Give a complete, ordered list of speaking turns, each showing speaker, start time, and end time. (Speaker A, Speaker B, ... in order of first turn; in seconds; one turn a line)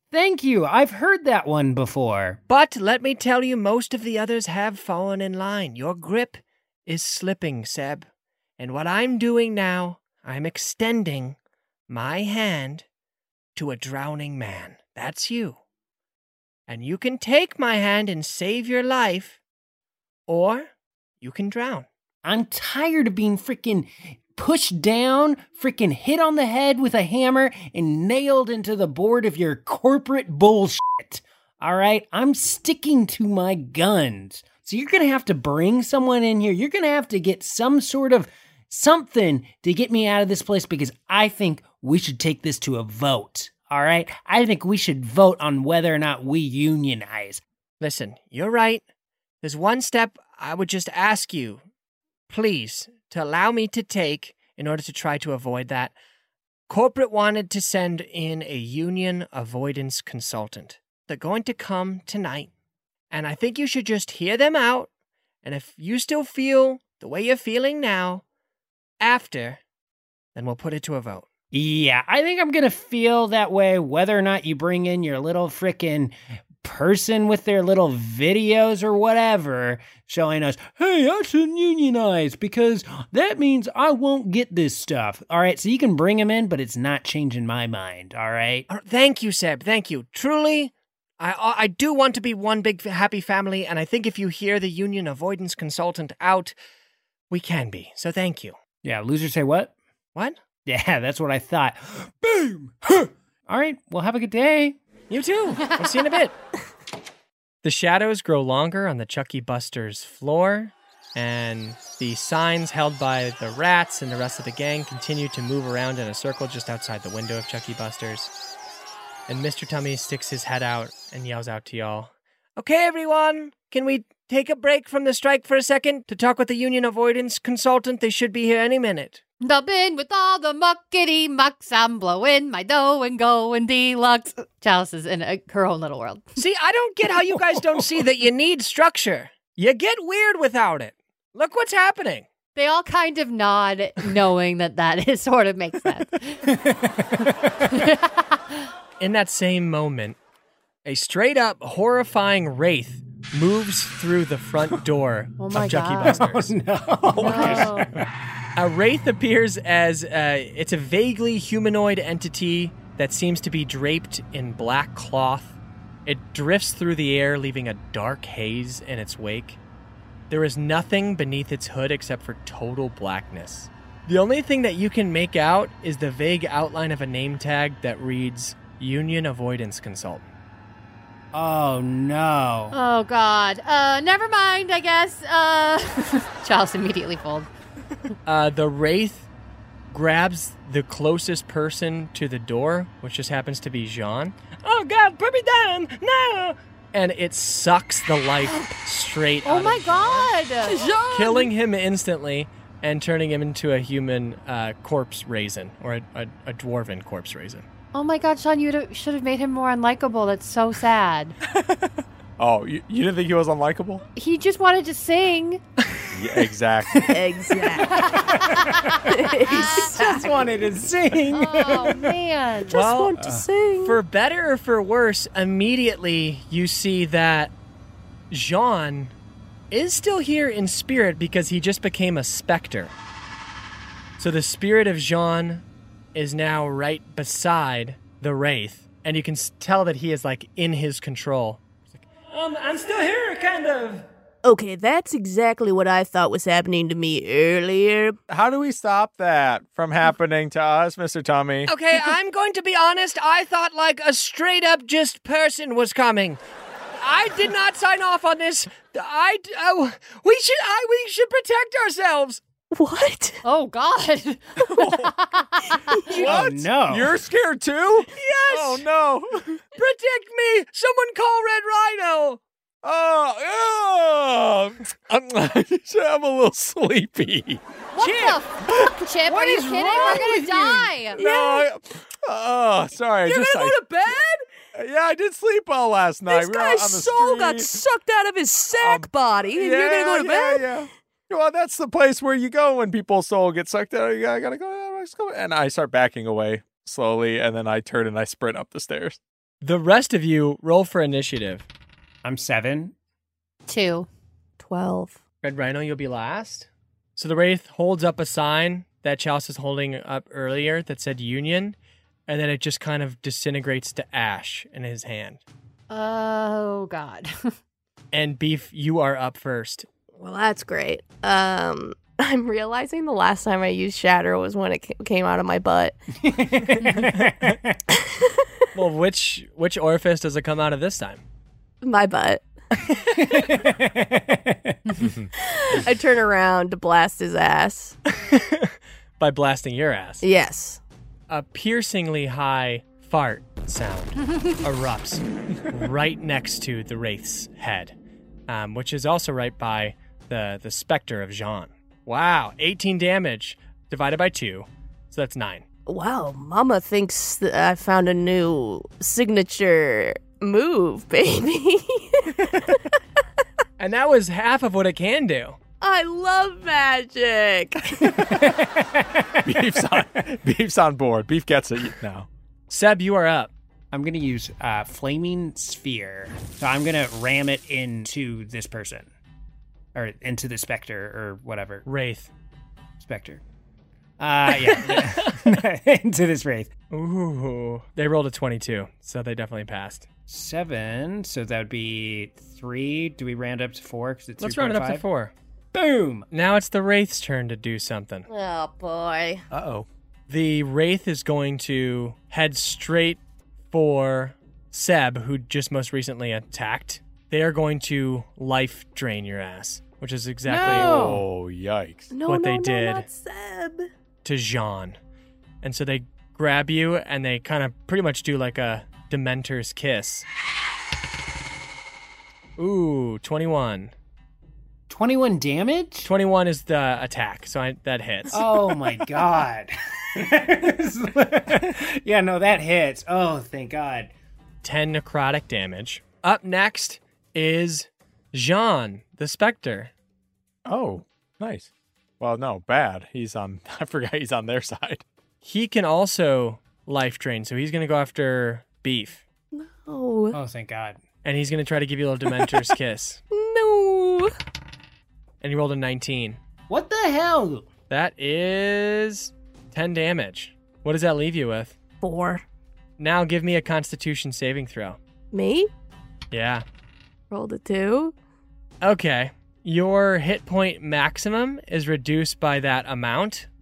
Speaker A: 0.1-2.4
Speaker B: 2.5-11.4
Speaker B: 11.9-12.8
Speaker B: 13.6-15.6
Speaker B: 16.7-19.4
Speaker B: 20.3-21.9
Speaker A: 22.2-47.4
Speaker B: 47.8-48.8
Speaker B: 49.4-51.6
Speaker B: 52.3-55.9
Speaker B: 56.7-62.5
Speaker B: 63.1-64.9
Speaker B: 65.4-68.2
Speaker B: 69.0-69.6
Speaker B: 70.3-71.3
Speaker A: 71.5-88.7
Speaker B: 88.7-96.5
Speaker B: 97.3-98.6
Speaker A: 98.8-99.7
Speaker A: 100.7-104.8
Speaker B: 105.1-106.3
Speaker B: 107.6-118.3
Speaker B: 119.3-129.2
Speaker C: 129.4-136.3
Speaker B: 136.4-142.3
Speaker C: 142.6-146.5
Speaker A: 146.5-147.5
Speaker C: 147.6-148.6
Speaker B: 149.0-150.2
Speaker B: 150.8-156.5
Speaker C: 155.4-156.2
Speaker A: 156.1-157.9
Speaker B: 157.2-157.7
Speaker C: 157.2-157.9
Speaker B: 158.6-169.6
Speaker B: 170.3-180.3
Speaker A: 181.3-182.8
Speaker C: 182.7-187.5
Speaker B: 188.3-189.3
Speaker B: 189.9-200.3
Speaker C: 199.4-200.8
Speaker D: 200.7-201.5
Speaker B: 201.1-207.7
Speaker C: 207.9-211.3
Speaker E: 212.4-214.0
Speaker C: 214.2-215.6
Speaker E: 216.1-217.1
Speaker D: 216.9-218.2
Speaker C: 218.0-220.0
Speaker A: 218.4-218.7
Speaker D: 219.1-220.6
Speaker A: 219.8-222.2
Speaker C: 221.3-222.8
Speaker D: 222.7-224.0
Speaker B: 222.7-223.2
Speaker B: 223.8-227.5
Speaker B: 228.3-229.1
Speaker B: 229.7-232.9
Speaker B: 234.2-235.6
Speaker B: 236.2-244.1
Speaker D: 244.4-248.2
Speaker E: 248.3-251.7
Speaker B: 251.7-256.4
Speaker B: 257.0-262.4
Speaker D: 262.7-263.4
Speaker C: 263.4-266.0
Speaker E: 264.8-265.1
Speaker A: 266.1-267.2
Speaker E: 266.2-269.6
Speaker B: 268.2-268.9
Speaker B: 269.8-272.4
Speaker E: 272.8-277.6
Speaker C: 277.9-281.5
Speaker A: 278.0-278.4
Speaker A: 279.2-281.0
Speaker E: 281.2-283.9
Speaker D: 283.2-284.1
Speaker E: 284.7-287.8
Speaker D: 286.3-290.7
Speaker E: 288.8-299.2
Speaker B: 299.6-301.7
Speaker A: 302.2-302.9
Speaker C: 303.7-304.1
Speaker D: 304.6-305.2
Speaker B: 305.4-311.8
Speaker B: 312.3-315.4
Speaker C: 315.9-317.6
Speaker B: 318.1-319.9
Speaker D: 320.1-326.0
Speaker A: 326.2-327.8
Speaker D: 327.9-328.5
Speaker B: 328.7-331.2
Speaker D: 331.8-332.4
Speaker A: 333.2-334.8
Speaker E: 335.0-335.3
Speaker D: 335.4-338.0
Speaker B: 338.3-340.2
Speaker D: 340.2-340.8
Speaker B: 341.3-348.0
Speaker B: 348.5-355.6
Speaker D: 355.9-362.9
Speaker B: 363.8-365.6
Speaker D: 365.8-368.3
Speaker A: 368.2-370.0
Speaker E: 369.5-372.3
Speaker B: 372.7-373.5
Speaker A: 373.9-379.1
Speaker A: 379.9-381.8
Speaker B: 381.9-382.3
Speaker A: 383.0-383.4
Speaker A: 384.2-386.7
Speaker B: 384.5-385.5
Speaker B: 386.9-390.1
Speaker A: 390.3-395.0
Speaker B: 394.4-395.3
Speaker A: 395.7-396.3
Speaker B: 396.3-398.3
Speaker D: 398.3-399.4
Speaker E: 399.5-399.9
Speaker B: 400.3-403.2
Speaker B: 403.7-411.1
Speaker A: 410.5-411.3
Speaker E: 410.6-412.1
Speaker D: 412.1-413.9
Speaker B: 412.3-413.1
Speaker B: 414.2-415.0
Speaker B: 415.6-420.3
Speaker B: 422.6-423.9
Speaker A: 424.9-426.1
Speaker B: 426.1-428.4
Speaker A: 428.3-434.1
Speaker B: 434.6-439.9
Speaker E: 440.7-445.0
Speaker B: 445.4-449.2
Speaker D: 449.5-450.4
Speaker A: 450.3-451.0
Speaker B: 451.2-453.2
Speaker D: 453.3-454.3
Speaker B: 455.4-456.4
Speaker A: 456.7-457.7
Speaker B: 457.9-461.8
Speaker D: 462.0-462.4
Speaker B: 463.0-465.0
Speaker D: 465.3-465.7
Speaker B: 466.3-466.6
Speaker D: 467.3-468.1
Speaker B: 468.8-473.5